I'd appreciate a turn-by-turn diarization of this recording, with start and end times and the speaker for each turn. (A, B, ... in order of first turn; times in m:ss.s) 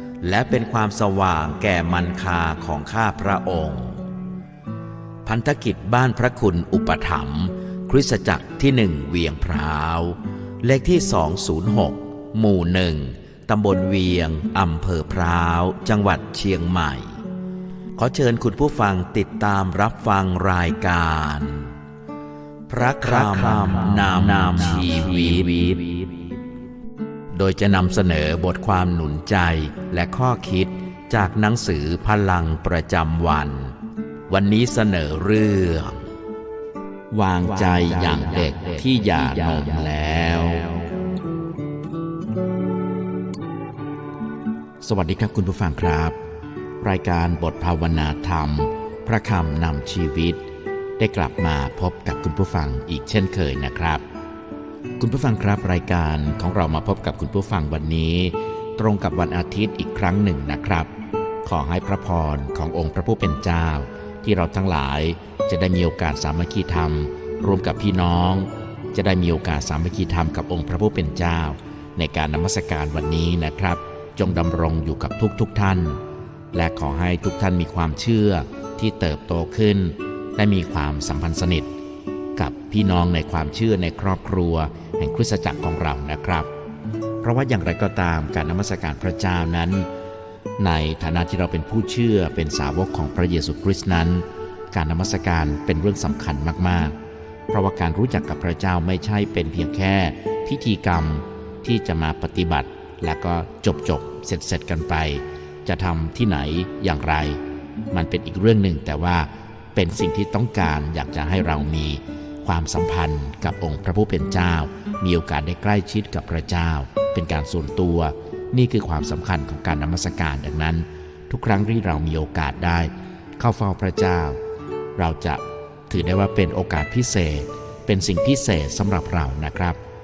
0:00.2-0:04.0 A
0:05.2-0:17.2 A
0:18.0-0:21.7 A
0:22.7-0:26.0 A
0:27.3-0:33.8 A
0:34.3-0:36.0 A
0:37.1-0:40.9 A
0:44.8-0:46.2 A
0:46.8-0:50.4 A
0:51.0-0:54.0 A
0:55.0-1:00.9 A
1:01.4-1:16.0 A
1:16.5-1:21.7 A
1:22.4-1:26.5 A
1:27.2-1:29.9 A
1:30.6-1:37.0 A
1:37.5-1:47.4 A
1:47.9-2:04.4 A
2:05.0-2:09.8 A